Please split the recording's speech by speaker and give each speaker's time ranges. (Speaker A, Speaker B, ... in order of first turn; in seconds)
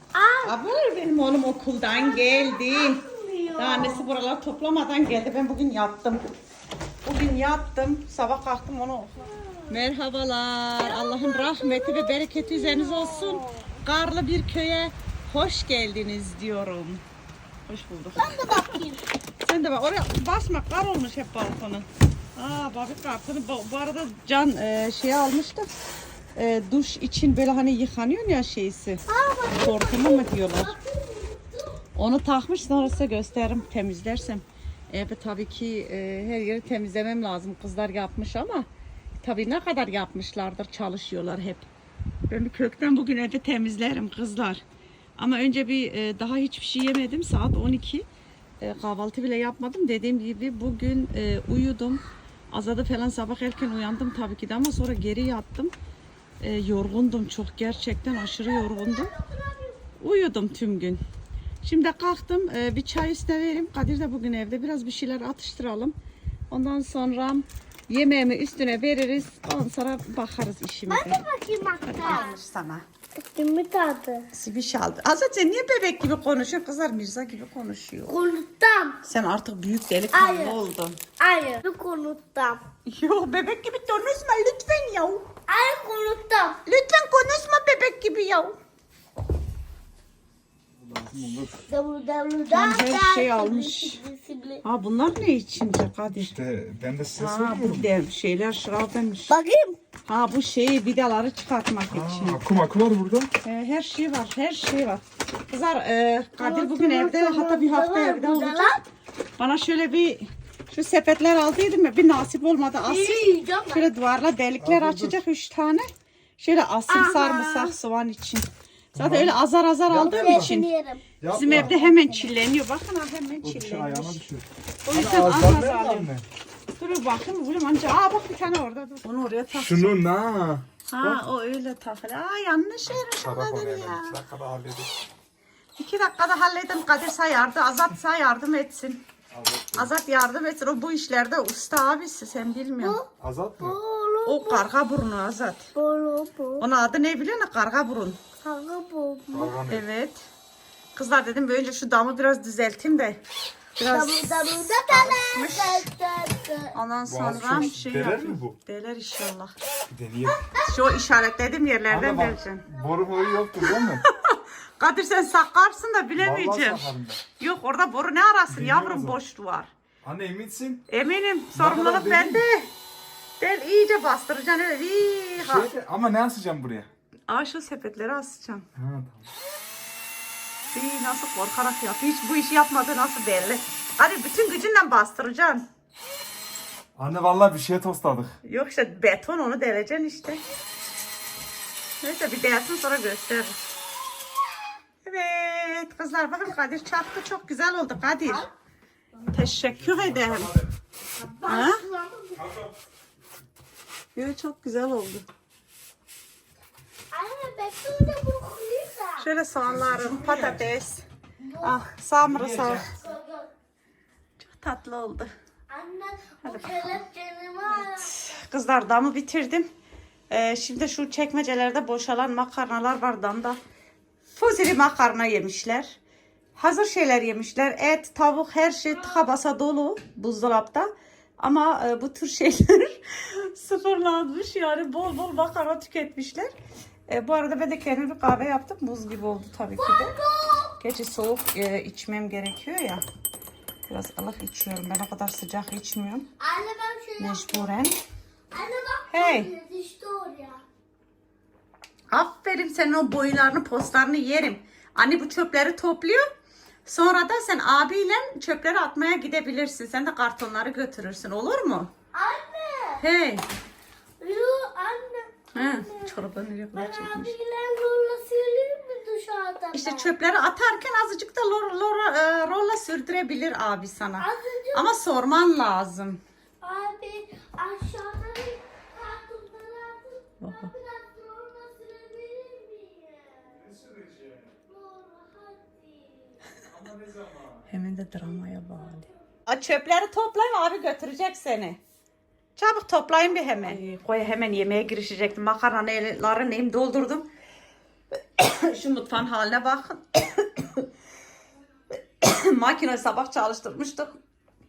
Speaker A: 0.1-0.6, 2.0-4.1, 10.8-13.8, 18.2-19.0, 29.1-31.8, 58.4-59.8, 70.9-72.4, 73.2-74.3, 78.1-79.0, 80.1-80.6, 81.2-82.6, 85.5-86.6, 91.7-94.6, 99.3-99.8, 106.4-108.8, 112.8-113.9, 116.9-117.7, 120.1-122.3, 142.8-143.1, 143.6-144.7, 145.8-146.6, 148.4-149.5, 153.9-156.7, 160.5-161.0, 201.2-202.4, 207.1-209.3, 211.4-211.8, 212.8-213.5, 215.7-218.1, 239.8-240.8, 246.4-247.7, 248.5-250.6, 262.1-263.0, 264.2-266.1, 266.7-270.1, 274.2-274.9, 276.6-283.6, 284.7-286.4
Speaker B: 0.4-3.0, 3.5-6.2, 7.0-17.0, 17.7-18.8, 19.4-25.7, 26.4-30.8, 32.0-38.7, 39.2-41.7, 42.3-44.6, 45.2-48.0, 48.6-55.7, 56.4-59.1, 60.0-61.0, 61.6-66.0, 66.5-71.3, 71.9-72.8, 74.3-78.2, 79.0-81.0, 82.9-85.2, 86.7-88.6, 92.5-94.0, 94.6-96.3, 97.2-99.4, 100.1-102.4, 103.4-108.8, 109.4-115.9, 116.4-120.7, 121.3-124.2, 124.8-126.1, 126.8-130.0, 130.9-134.2, 135.8-139.0, 139.7-143.0, 144.3-145.7, 146.6-148.2, 149.7-150.3, 150.9-153.2, 153.8-155.9, 156.7-159.5, 160.6-162.7, 163.6-169.7, 170.9-172.7, 173.4-175.7, 177.3-178.7, 180.7-185.7, 188.4-190.4, 192.0-193.6, 195.1-198.5, 199.3-200.5, 201.4-201.8, 204.2-205.3, 209.2-211.1, 211.6-212.9, 214.4-215.3, 216.4-217.0, 217.7-219.7, 220.3-223.6, 224.3-226.0, 226.6-236.5, 237.1-240.1, 240.8-243.0, 243.9-246.3, 247.2-247.9, 249.1-249.5, 252.1-256.3, 256.9-261.9, 263.0-263.4, 265.5-267.3, 269.7-276.2, 280.4-280.7, 287.7-291.8, 292.6-297.3, 298.4-300.9, 302.2-304.2
Speaker C: 90.8-91.6, 96.2-97.9, 101.9-103.3, 114.6-115.2, 119.0-119.3, 119.9-120.5, 121.2-121.7, 123.4-126.2, 129.5-131.2, 133.1-134.9, 139.3-139.9, 143.2-143.8, 149.3-149.8, 157.1-158.6, 159.9-160.5, 161.9-164.0, 166.2-167.2, 168.5-169.2, 170.0-170.8, 171.6-172.4, 175.4-176.9, 178.8-179.3, 187.0-188.4, 199.7-200.7, 202.3-202.8, 209.7-210.6, 212.2-212.9, 283.5-284.6, 286.7-287.7